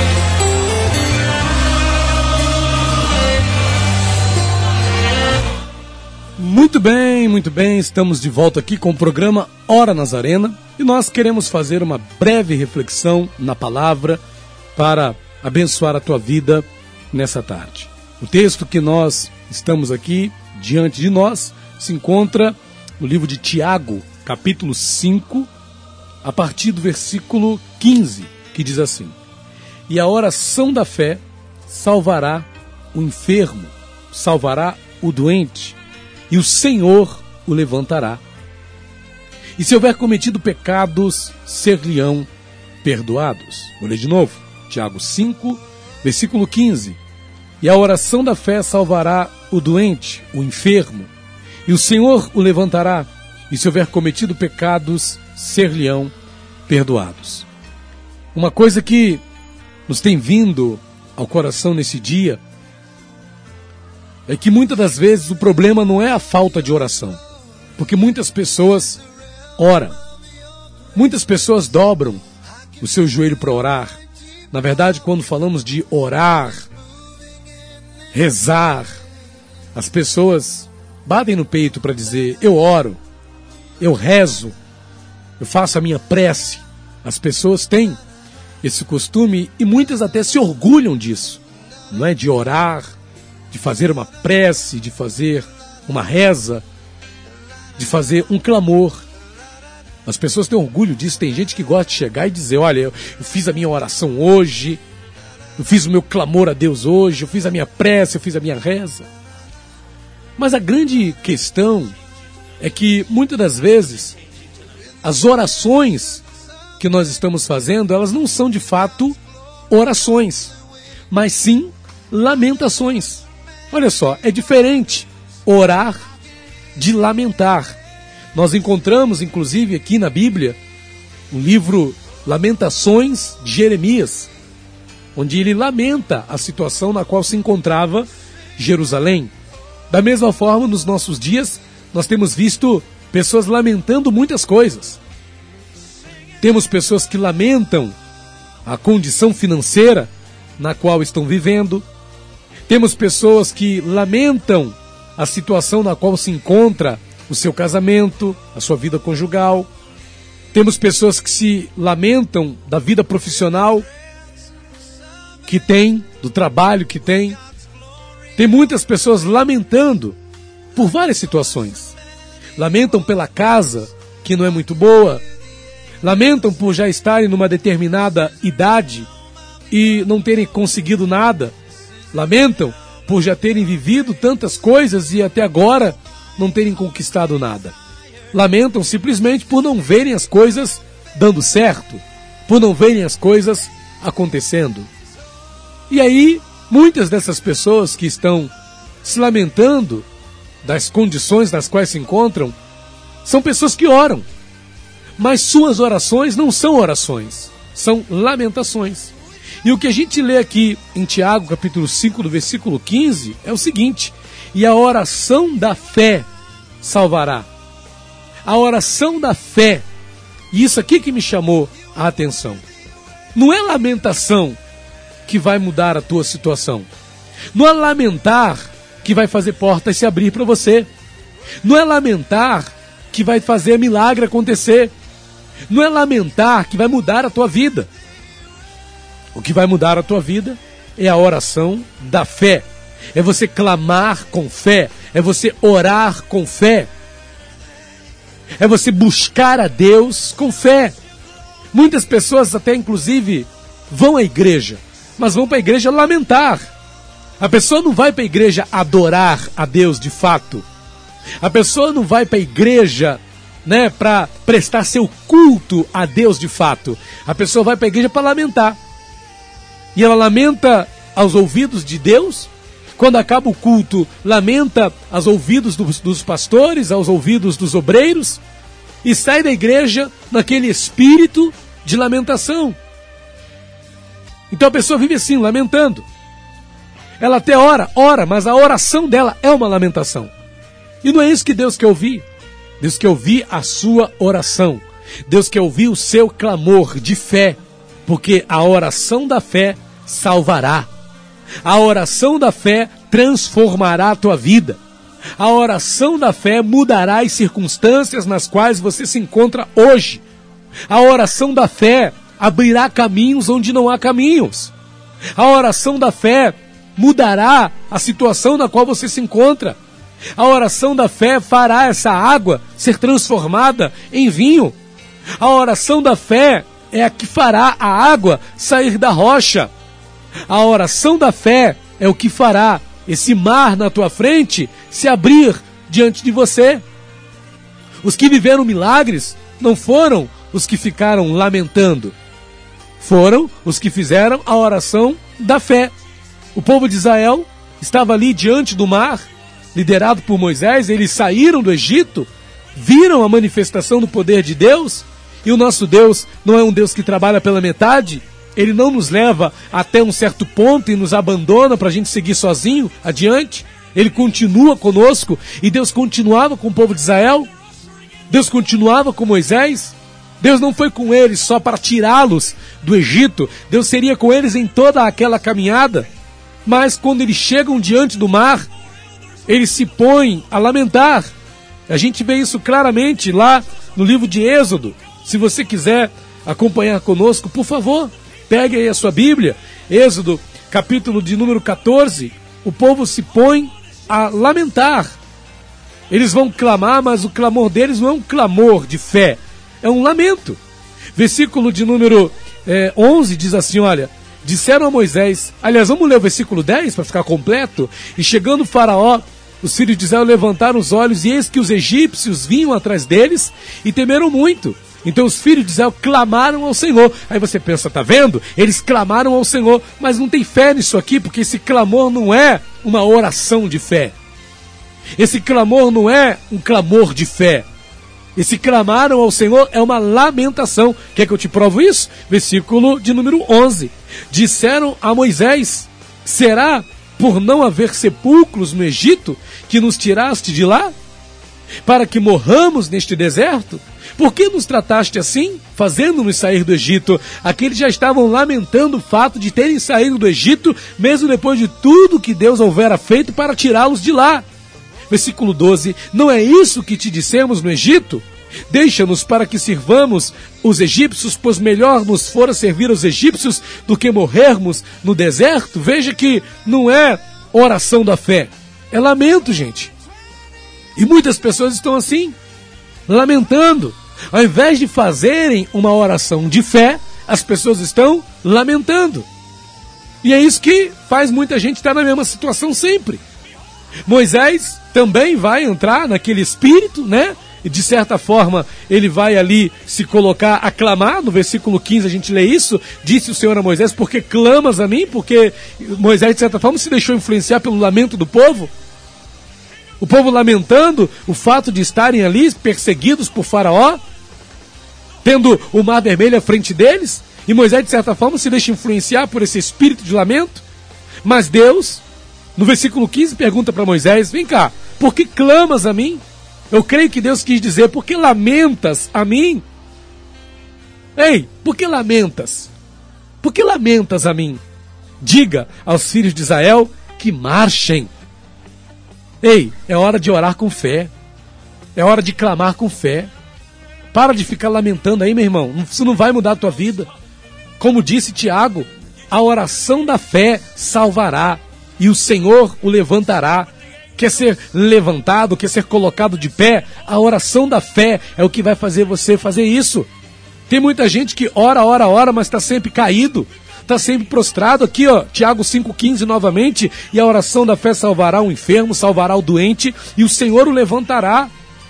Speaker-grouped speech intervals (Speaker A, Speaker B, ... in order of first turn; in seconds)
Speaker A: 6.4-14.2, 14.7-25.5, 26.2-29.1, 29.9-35.8, 36.3-38.2, 39.6-42.3, 42.8-47.0, 47.6-51.1, 51.6-56.1, 56.7-57.5, 58.3-59.2, 59.9-62.4, 64.3-67.2, 67.8-69.0, 69.6-70.0, 70.9-72.2, 72.8-74.0, 74.5-76.7, 78.1-78.9, 79.7-83.0, 83.8-84.5, 85.4-88.0, 88.6-92.9, 93.5-96.6, 97.8-99.0, 100.0-104.8, 105.6-109.1, 110.4-111.9, 112.6-114.1, 115.0-116.2, 116.8-119.2, 119.7-120.5, 121.1-126.0, 126.7-127.8, 128.3-130.6, 131.3-134.3, 135.1-139.3, 139.9-145.0, 146.4-147.9, 148.6-151.8, 152.7-159.7, 160.5-163.9, 165.4-167.4, 168.3-170.2, 170.7-171.9, 172.6-175.2, 176.0-179.1, 179.7-181.5, 182.1-187.8, 188.3-194.9, 195.9-198.5, 199.0-200.1, 200.6-202.5, 203.2-204.2, 205.2-216.3, 216.8-217.5, 218.4-219.8, 220.5-222.6, 223.3-224.6, 225.2-226.9, 227.5-230.9, 231.6-234.9, 235.7-237.9, 239.3-246.9, 248.6-250.9, 251.7-256.6, 257.4-260.6, 261.4-268.8, 269.9-278.4, 279.0-282.8, 284.5-286.1, 287.2-290.3, 291.0-292.2, 292.8-300.9, 301.6-304.8, 305.4-310.2, 310.9-314.7, 315.4-319.8, 320.4-324.8, 325.4-329.7, 330.5-336.8, 338.0-342.1, 343.0-345.9, 346.5-367.5, 368.3-376.1, 376.6-378.7, 379.5-381.3, 381.9-395.2, 396.1-400.6, 401.1-424.1, 425.2-427.7, 428.3-440.9, 441.8-454.4, 455.1-469.9, 470.9-472.4, 473.1-479.3, 480.2-483.2, 484.1-498.7, 500.0-504.0, 505.2-510.6, 511.2-512.0, 512.5-519.6, 521.1-522.7, 523.4-524.6, 525.2-528.1, 529.4-531.1, 531.9-533.3, 534.1-537.1, 537.8-550.1, 550.7-561.5